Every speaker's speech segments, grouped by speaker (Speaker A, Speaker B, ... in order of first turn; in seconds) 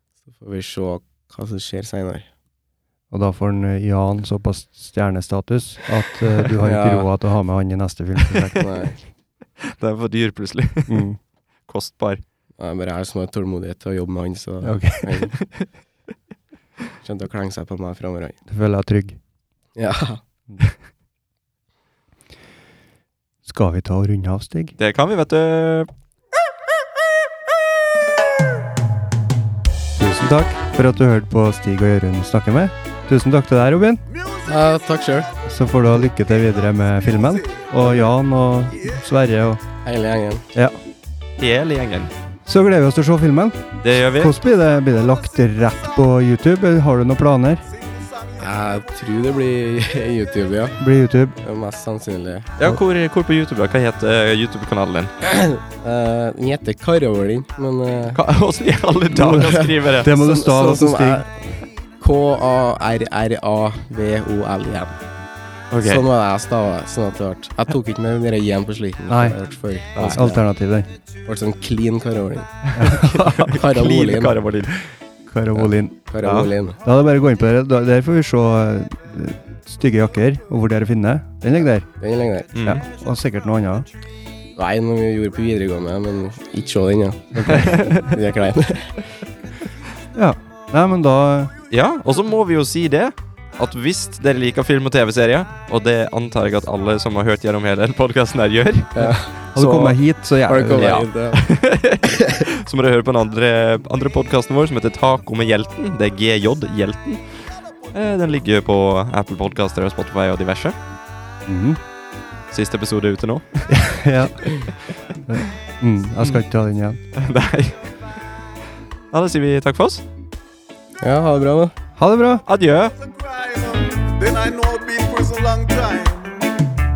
Speaker A: 0.3-2.3, 6.6-7.1, 8.6-9.0, 12.6-15.3, 17.0-18.4, 19.8-20.2, 34.5-35.3, 39.8-40.5, 48.4-50.8, 51.4-52.5, 55.2-58.2, 59.2-64.9, 65.8-70.4, 71.2-72.7, 73.4-74.4, 75.5-76.8, 82.0-82.5, 84.5-89.0, 98.9-99.9, 100.5-101.4, 102.1-102.4, 121.0-121.7
Speaker B: 3.1-8.9, 10.9-11.2, 14.6-15.2, 18.5-19.2, 23.4-24.8, 30.0-34.0, 35.5-39.6, 42.4-47.6, 50.8-51.4, 59.1-61.2, 69.1-69.4, 70.1-70.9, 72.7-73.5, 75.3-76.1, 76.8-81.9, 82.6-83.8, 87.3-87.8, 90.1-91.5, 99.5-101.0, 111.5-111.8, 113.7-114.7, 115.3-117.0, 122.0-122.4
Speaker C: 9.6-11.1, 11.7-12.2, 24.8-25.9, 41.4-42.1, 43.8-44.3, 52.6-55.1, 58.1-60.1, 65.7-66.0, 70.0-70.2, 72.7-74.8, 76.2-76.5, 82.5-82.8, 87.5-88.1, 91.7-99.9, 100.7-110.8, 112.5-113.7, 117.1-117.9, 119.1-120.0, 122.5-122.9
Speaker D: 123.0-126.5